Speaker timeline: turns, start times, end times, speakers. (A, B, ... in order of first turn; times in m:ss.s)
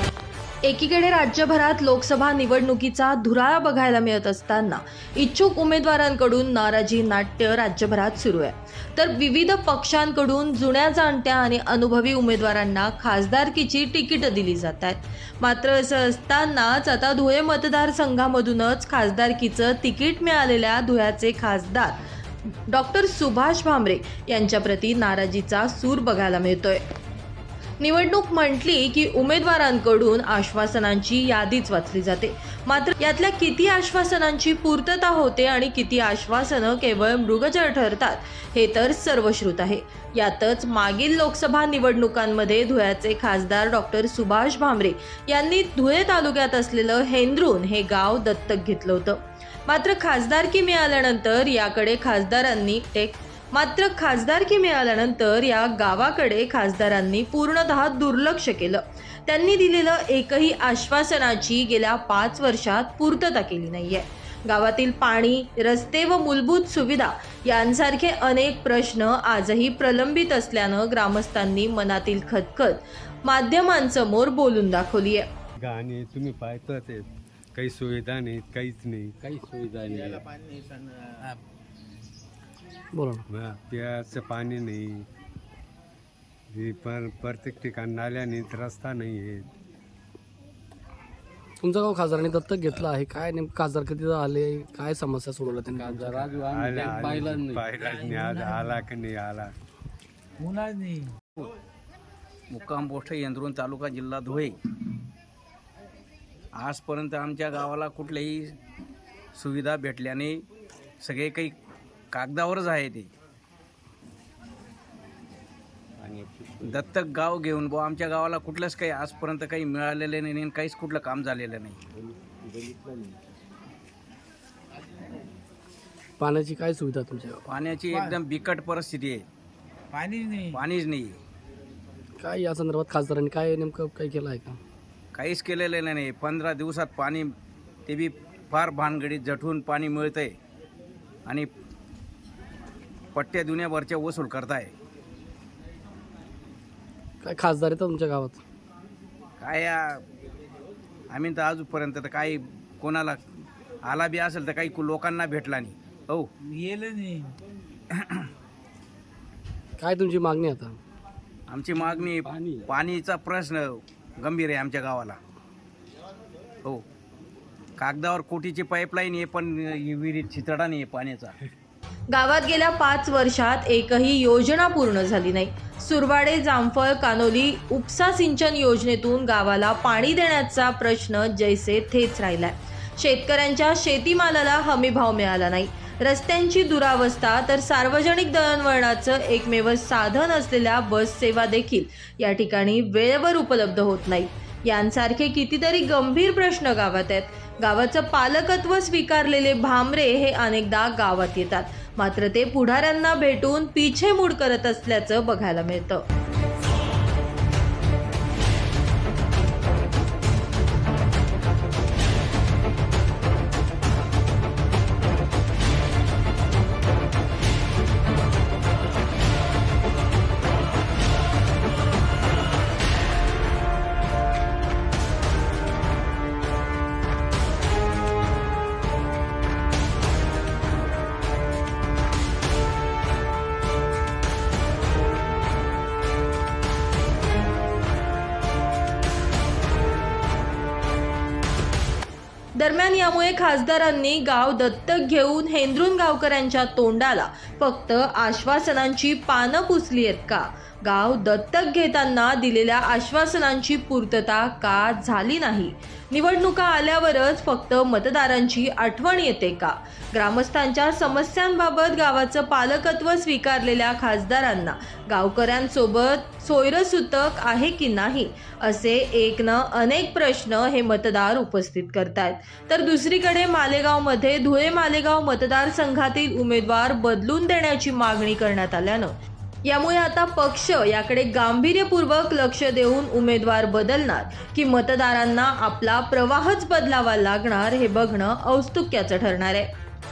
0:00.6-0:26.8 A
0:27.8-1:15.3 A
1:15.6-1:19.2 B
1:19.2-1:19.9 C
1:19.9-1:21.4 D
1:22.9-1:23.2 E
1:23.3-1:25.1 B
1:26.5-1:29.5 B
1:31.6-1:36.3 E
1:35.8-1:37.6 C
1:36.3-1:39.5 B
1:37.7-1:38.8 D
1:40.4-1:41.2 D
1:42.5-1:44.6 F
1:46.5-1:48.6 F
1:49.3-1:50.4 F
1:51.0-1:51.5 F
1:52.1-1:53.1 F
1:56.0-1:56.8 B
1:56.6-2:01.8 F
2:02.1-2:03.2 B
2:06.2-2:07.4 E
2:07.4-2:09.2 F
2:07.9-2:08.2 D
2:09.9-2:10.6 D
2:10.5-2:11.2 F
2:12.2-2:14.6 E
2:15.1-2:17.3 F
2:17.9-2:20.4 F
2:23.1-2:24.7 F
2:27.2-2:28.4 E
2:29.4-2:30.0 F
2:31.1-2:36.3 F
2:36.4-2:37.4 D
2:37.9-2:38.3 F
2:39.8-2:40.8 E
2:41.5-2:45.2 F
2:47.8-2:51.4 F
2:52.1-3:26.1 A
4:02.6-4:49.7 A